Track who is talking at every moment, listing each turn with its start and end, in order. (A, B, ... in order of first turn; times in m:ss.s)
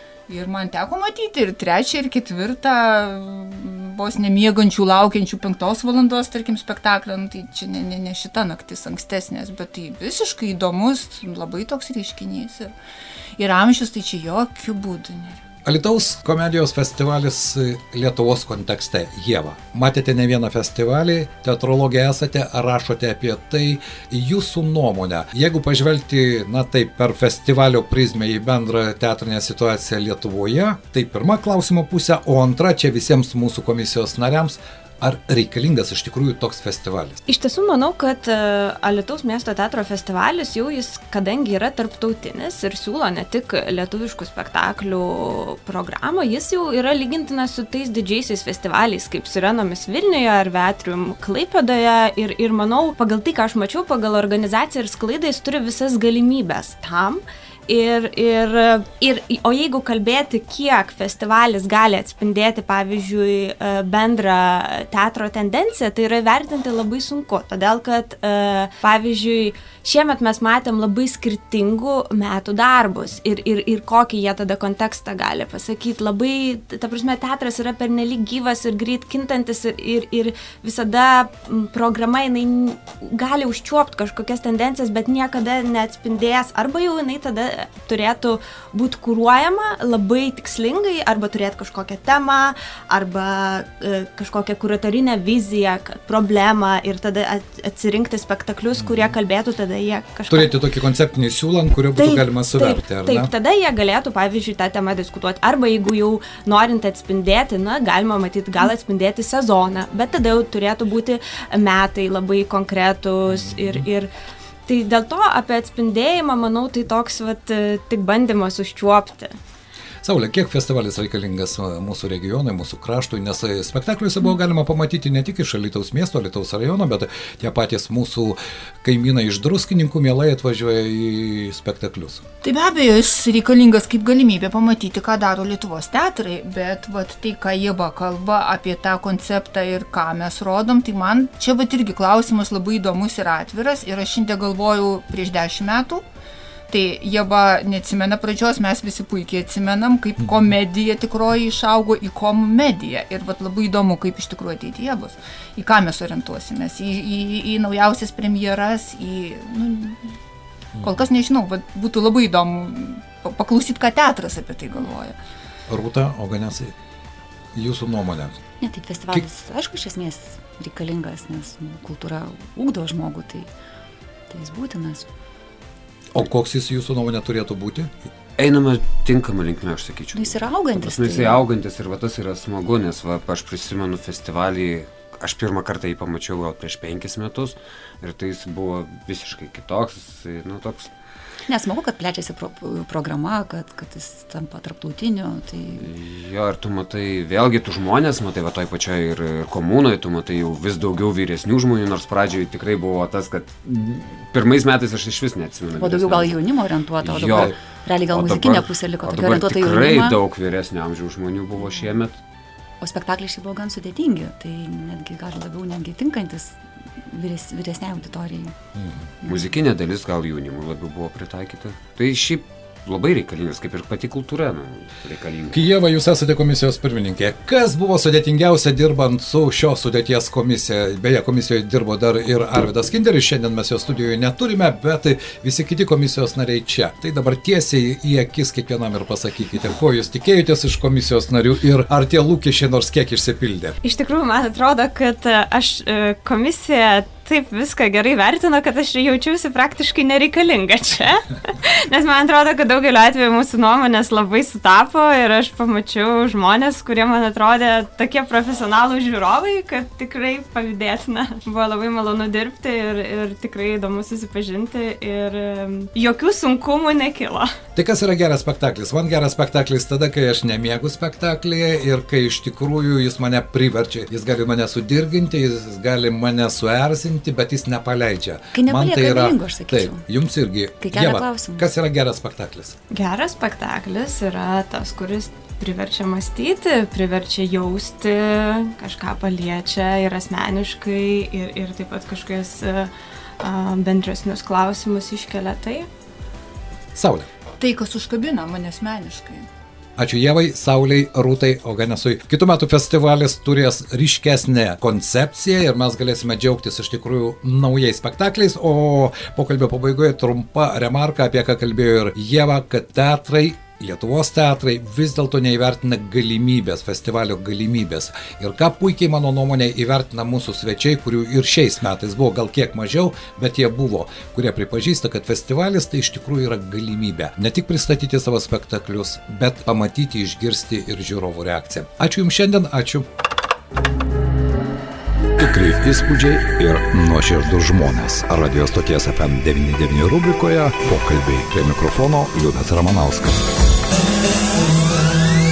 0:00.3-0:12.7 A
0:13.4-0:15.4 A
0:15.6-0:37.2 B
0:37.3-1:40.5 C
1:38.8-1:39.1 B
1:40.3-1:43.3 B
1:42.0-1:54.1 C
1:53.3-1:53.8 B
1:54.7-1:59.3 C
2:00.0-2:12.2 B
2:12.4-2:26.0 A
2:26.7-2:40.1 A
2:40.8-2:45.2 A
2:45.7-2:46.7 B
2:47.5-2:48.4 B
2:48.6-2:53.5 D
2:54.3-2:55.1 D
2:56.1-2:57.9 B
2:58.4-3:10.9 E
3:00.1-3:01.5 D
3:11.5-3:15.9 D
3:15.8-3:26.4 E
3:25.8-3:30.2 D
3:27.0-3:27.6 E
3:28.1-3:32.2 E
3:32.8-3:38.6 D
3:38.8-3:39.0 B
3:39.2-3:45.7 E
3:45.5-4:03.8 B
4:03.8-4:27.5 C
4:27.8-4:42.8 B
4:38.5-4:40.0 D
4:40.8-4:41.7 D
4:42.9-4:55.9 C
4:56.9-4:57.3 B
4:57.6-4:59.5 A
5:00.0-5:33.1 B
5:35.4-5:43.5 B